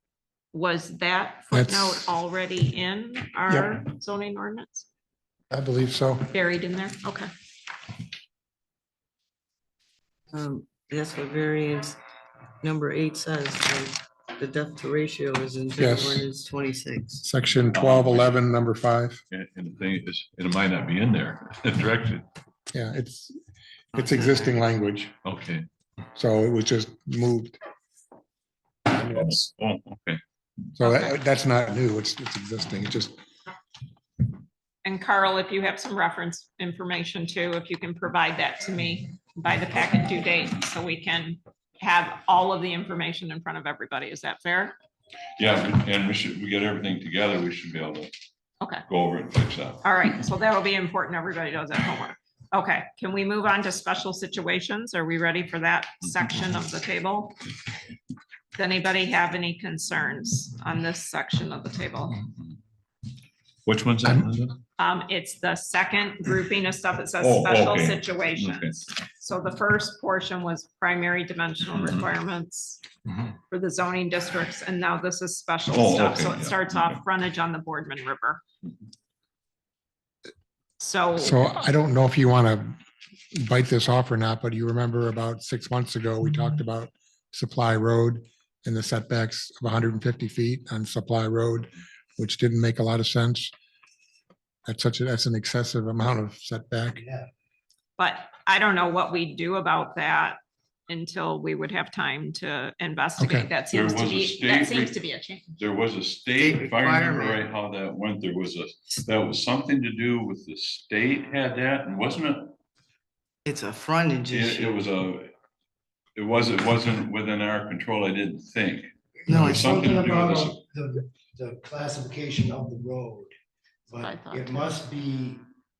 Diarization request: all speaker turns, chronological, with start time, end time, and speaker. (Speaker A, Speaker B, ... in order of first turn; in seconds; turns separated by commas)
Speaker A: 0.5-4.9, Speaker B: 1.5-2.1, Speaker B: 5.5-6.3, Speaker A: 6.3-7.3, Speaker C: 10.3-12.0, Speaker C: 12.6-17.2, Speaker B: 15.8-16.2, Speaker B: 17.2-19.2, Speaker D: 17.6-18.4, Speaker D: 19.3-22.3, Speaker B: 22.7-23.4, Speaker C: 23.9-24.6, Speaker B: 23.9-25.1, Speaker D: 25.2-25.7, Speaker B: 26.1-27.6, Speaker B: 28.9-29.4, Speaker D: 29.0-30.2, Speaker B: 30.8-33.2, Speaker A: 30.8-31.1, Speaker A: 34.9-44.8, Speaker D: 45.4-48.1, Speaker D: 48.9-49.8, Speaker A: 49.8-57.4, Speaker D: 56.0-56.3, Speaker A: 58.6-62.2, Speaker D: 62.2-62.6, Speaker D: 63.6-64.6, Speaker A: 64.8-72.8, Speaker D: 67.2-68.8, Speaker D: 71.7-72.1, Speaker A: 73.5-78.4, Speaker D: 75.7-77.0, Speaker A: 80.8-81.5, Speaker B: 81.2-82.8, Speaker B: 83.3-93.5, Speaker B: 94.7-97.0, Speaker E: 96.9-97.3, Speaker A: 98.0-105.5, Speaker B: 103.2-103.5, Speaker D: 103.7-105.0, Speaker D: 105.6-112.6, Speaker C: 106.4-107.4, Speaker C: 113.5-114.8, Speaker D: 114.3-115.3, Speaker D: 116.2-120.6, Speaker C: 119.3-119.8, Speaker E: 119.5-123.3, Speaker E: 123.9-125.4, Speaker A: 124.0-124.7